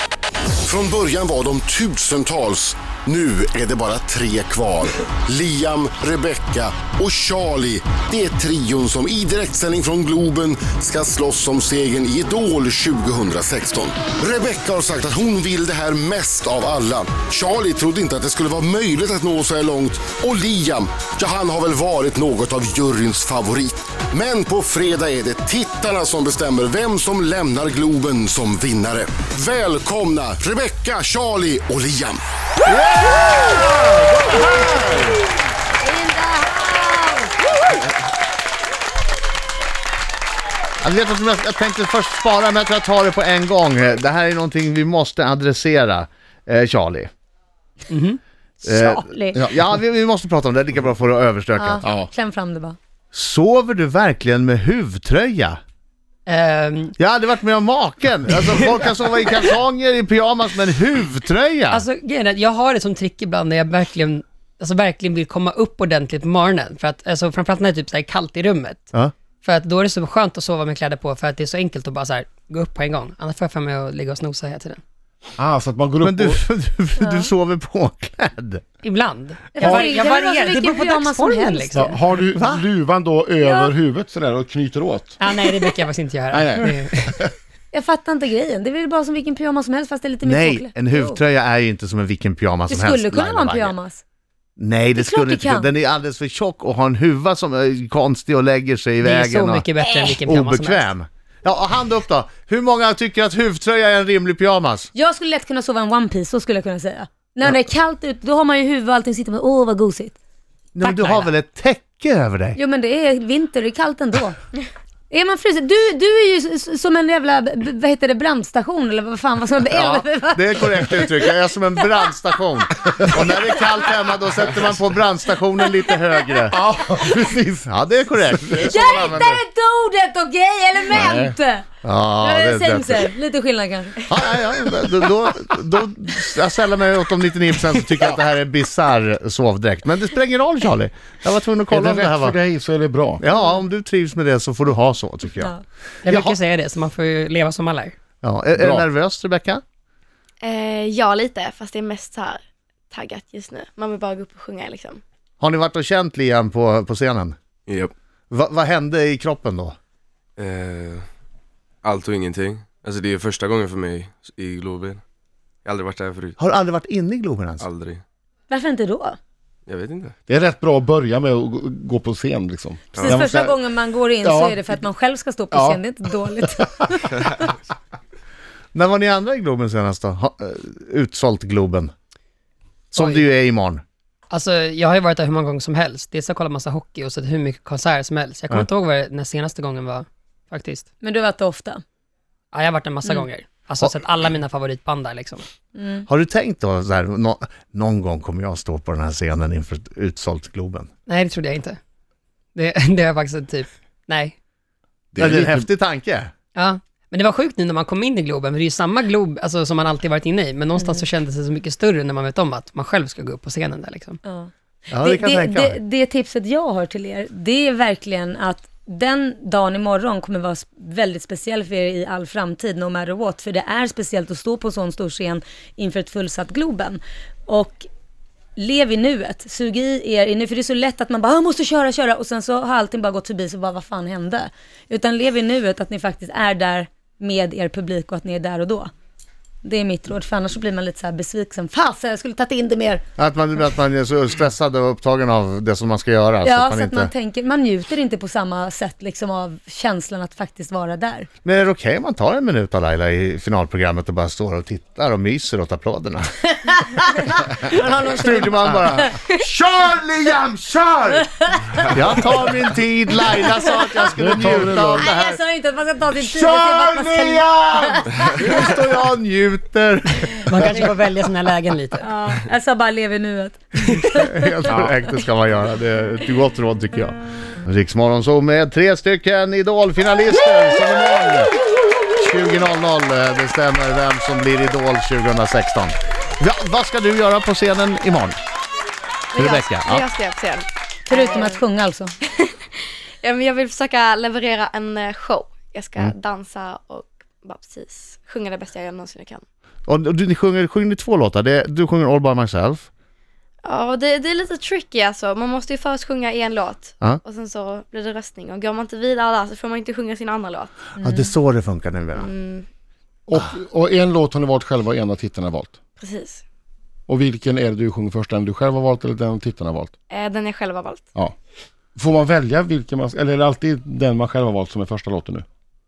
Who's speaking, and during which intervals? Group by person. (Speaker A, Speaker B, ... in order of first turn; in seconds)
Speaker A: 0.7-32.2
Speaker B: 32.7-35.2, 40.8-47.1, 48.6-51.9, 53.1-55.6, 57.0-61.8, 76.0-78.6, 82.3-82.6, 90.2-93.8, 94.6-99.7, 100.2-104.9, 110.8-112.6, 119.8-126.6, 127.7-129.4, 131.8-133.1, 134.1-142.4, 143.2-145.5, 146.1-146.4, 148.2-149.6, 155.4-157.4, 158.3-159.8, 166.4-167.7, 178.7-181.9, 182.9-183.8, 196.1-200.9, 205.2-206.3, 214.9-215.8, 243.2-247.1, 251.4-256.4, 257.7-261.2, 261.9-265.4, 266.2-270.9, 274.1-281.5, 282.2-288.4, 289.4-290.1, 299.9-302.9, 311.0-312.3
Speaker C: 35.8-37.3, 48.6-49.4, 51.6-52.8, 77.0-77.3, 79.5-81.7, 83.4-83.7, 87.7-91.2, 92.7-94.0, 95.0-95.7, 99.8-100.2, 104.9-110.2, 112.6-114.4, 115.1-121.3, 128.6-131.7, 132.2-134.0, 168.5-169.2, 173.0-177.5, 191.0-191.8, 195.8-196.1, 210.8-211.1, 214.3-227.9, 228.6-238.9, 239.6-243.1, 246.4-251.3, 256.5-259.3, 261.2-261.8, 265.0-268.8, 272.0-274.5, 291.1-292.1, 311.0-311.3
Speaker D: 47.9-48.2, 56.3-57.0, 61.7-68.9, 69.4-74.8, 78.8-82.0, 85.2-87.2, 99.0-100.9, 111.0-111.3, 146.0-148.0, 183.0-183.2, 184.3-190.9, 192.5-195.4, 201.1-201.8, 202.6-204.3, 206.6-214.2, 270.5-272.1
Speaker E: 49.4-49.6, 51.8-52.1, 75.4-76.4, 79.6-79.9, 81.7-85.2, 86.3-87.3, 126.5-127.7, 128.2-128.8, 130.9-131.4, 141.7-143.2, 148.6-148.9, 170.3-173.6, 174.2-174.8, 175.5-175.8, 176.4-176.7, 205.2-205.7, 264.1-265.1, 274.7-274.9, 313.3-315.8, 317.1-319.9, 321.9-325.4
Speaker F: 150.4-155.0, 289.3-291.6, 292.3-299.4, 303.6-310.8, 312.1-312.7, 316.0-316.4, 320.1-321.1
Speaker G: 157.7-157.9, 160.4-161.0, 161.8-165.0, 165.7-166.4, 167.6-168.0, 169.7-170.2, 173.0-173.2